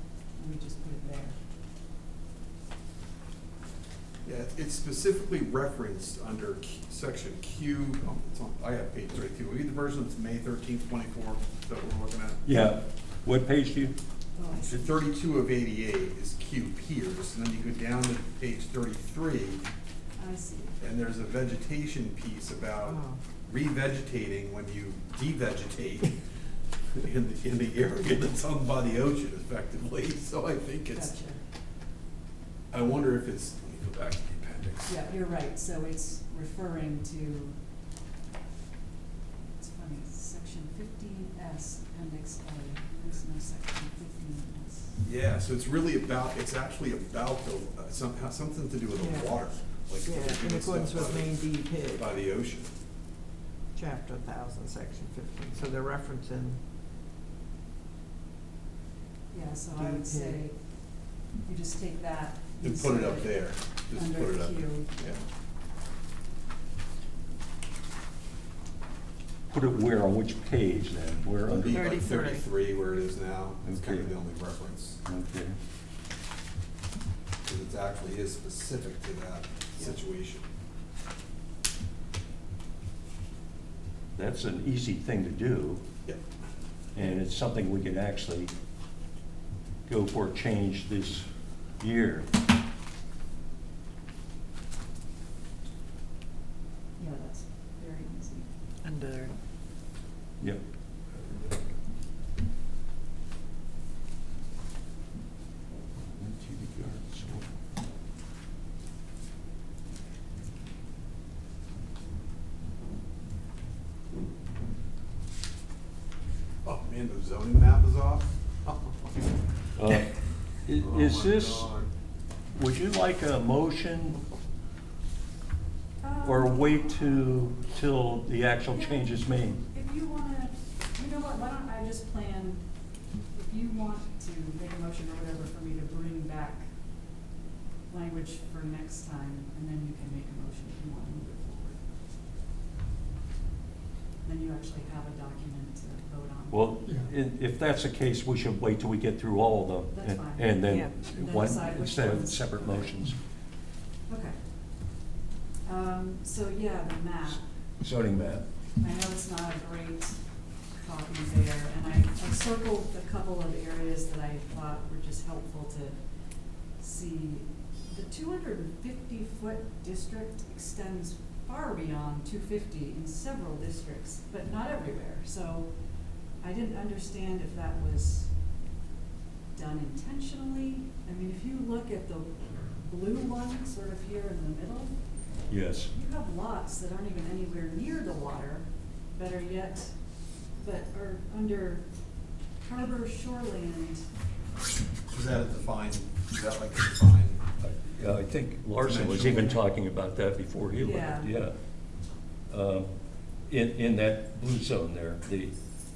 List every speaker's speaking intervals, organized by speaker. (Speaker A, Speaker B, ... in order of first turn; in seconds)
Speaker A: 0.4-1.4, 14.3-15.0, 20.2-20.8, 30.9-31.4, 34.9-37.6, 39.6-44.9, 59.3-60.6, 61.4-63.4, 63.9-64.9, 97.0-98.5, 126.0-127.2, 128.7-132.6, 133.3-136.7, 137.9-141.8, 144.2-146.9, 149.9-152.9, 154.1-154.4, 155.6-157.4, 158.8-160.2, 160.8-166.0, 166.8-175.7, 176.4-178.3, 179.5-184.9, 185.9-189.9, 190.6-191.8, 192.6-194.0, 200.8-201.3
Speaker B: 4.2-12.4, 14.7-19.6, 20.8-26.1, 27.0-31.2, 32.7-35.0, 45.0-52.7, 62.6-65.2, 71.5-75.0, 77.4-80.4, 116.6-119.1, 120.8-121.9, 195.1-197.4, 198.8-199.6
Speaker C: 12.4-13.9, 69.5-71.8, 73.6-74.1, 75.0-75.5, 84.1-85.8, 86.9-88.5, 89.9-91.2, 91.8-92.3, 106.0-107.5, 119.8-120.1, 120.7-121.7, 122.5-124.2, 126.2-129.6, 146.5-153.2, 157.8-158.4, 185.5-185.9, 197.6-201.6, 202.5-202.9, 203.5-205.5
Speaker D: 22.9-23.2, 49.0-49.4, 50.0-52.1, 53.7-56.6, 59.7-60.4, 71.7-72.5, 98.8-99.4, 150.7-150.9